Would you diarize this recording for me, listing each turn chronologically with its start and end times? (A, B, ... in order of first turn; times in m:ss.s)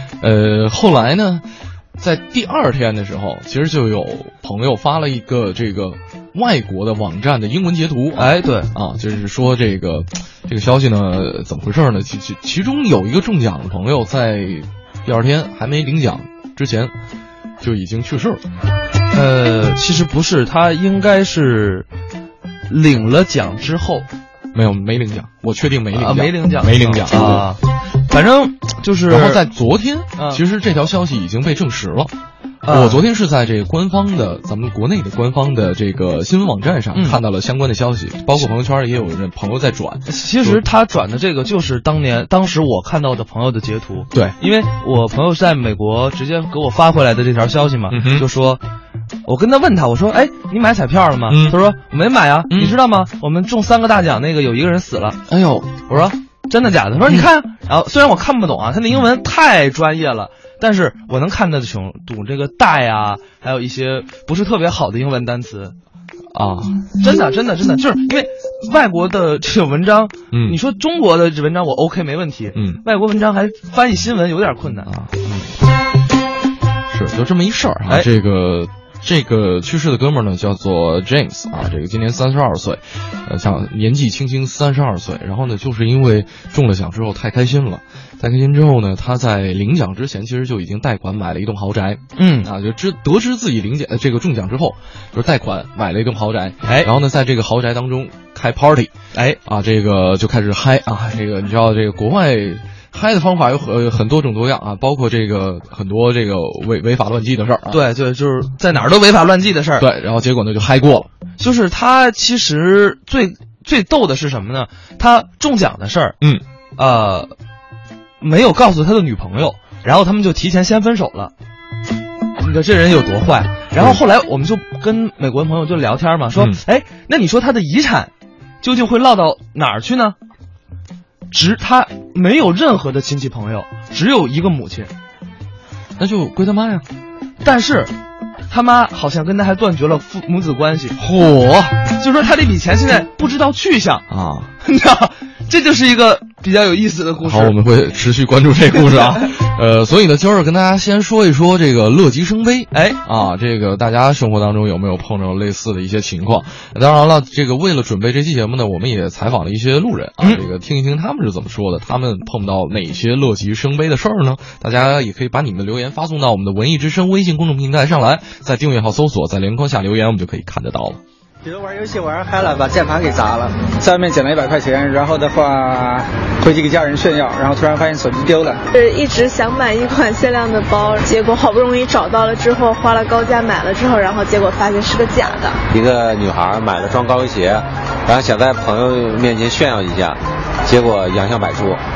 0:00.2-0:01.4 A
0:02.0-0:16.9 A
0:08.2-0:08.7 B
0:17.6-0:18.4 A
0:19.1-0:21.9 B
0:22.7-0:24.1 B
0:24.5-0:27.4 A
0:25.9-0:29.4 B
0:29.1-0:32.1 A
0:30.2-0:30.4 B
0:32.6-0:33.0 B
0:32.7-0:40.6 A
0:36.9-0:37.2 B
0:40.1-0:48.6 B
0:47.9-0:48.2 A
0:49.2-0:55.2 B
0:51.3-0:51.6 A
0:52.5-0:52.8 A
0:55.3-0:55.8 A
0:55.9-1:05.7 B
1:06.3-1:06.9 A
1:07.0-1:14.9 B
1:10.3-1:10.6 A
1:12.5-1:12.8 A
1:14.9-1:15.5 A
1:16.9-1:38.9 A
1:32.2-1:32.5 B
1:36.6-1:36.9 B
1:39.1-1:39.4 B
1:39.4-1:47.8 A
1:47.7-1:49.8 B
1:49.8-1:51.1 A
1:51.4-1:56.2 B
1:56.8-1:57.3 B
1:58.2-2:01.3 B
2:02.4-2:08.1 B
2:03.8-2:04.0 A
2:08.6-2:10.2 B
2:11.3-2:14.9 B
2:16.0-2:16.8 A
2:17.4-2:17.9 B
2:18.5-2:21.0 B
2:21.0-2:21.8 A
2:21.9-2:24.0 B
2:24.1-2:24.5 A
2:24.6-2:27.6 B
2:27.2-2:51.0 A
2:28.9-2:29.2 B
2:32.7-2:33.0 B
2:51.4-2:58.6 C
2:58.7-3:05.6 D
3:05.7-3:11.8 E